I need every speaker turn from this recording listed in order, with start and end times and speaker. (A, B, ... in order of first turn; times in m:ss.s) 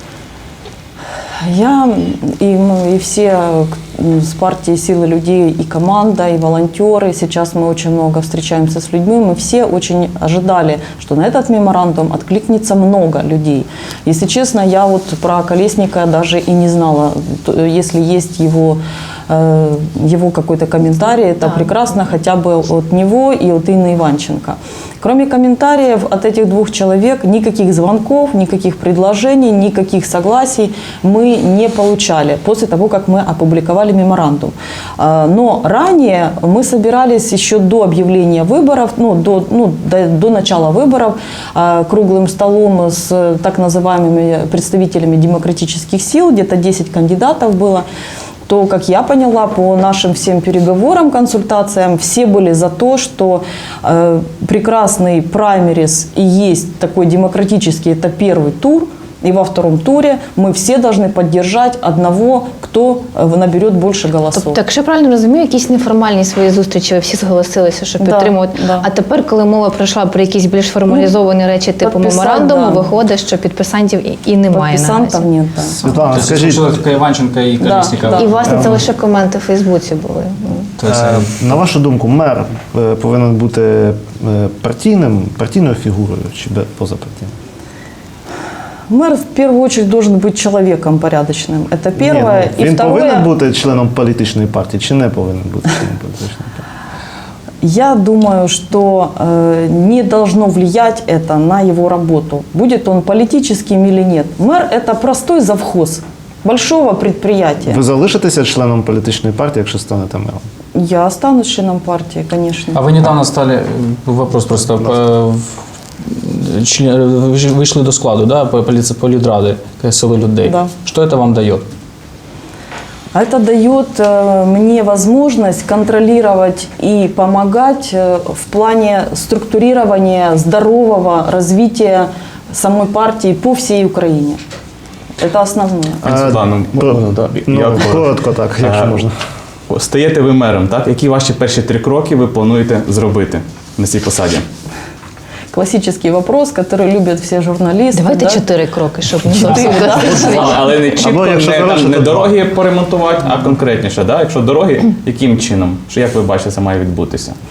0:01.4-0:47.8 A
0:21.4-0:21.7 B
0:48.5-1:04.6 A
1:04.4-1:15.2 B
1:08.0-1:08.9 A
1:11.8-1:12.9 A
1:14.5-1:15.8 A
1:15.7-1:16.9 C
1:16.1-1:18.8 D
1:17.6-1:18.4 A
1:18.2-1:20.7 B
1:18.5-1:18.8 C
1:20.8-1:21.4 D
1:20.8-1:27.3 C
1:28.9-1:33.3 A
1:32.0-1:36.6 C
1:37.6-1:47.8 A
1:47.6-1:50.4 C
1:50.7-1:52.8 A
1:52.7-2:01.6 D
2:00.4-2:00.7 A
2:03.1-2:14.4 A
2:15.2-2:16.1 A
2:16.0-2:19.0 E
2:16.0-2:19.1 C
2:19.7-2:24.4 E
2:25.5-2:28.4 A
2:27.9-2:30.7 B
2:29.3-2:30.5 A
2:29.9-2:37.4 E
2:31.0-2:32.4 C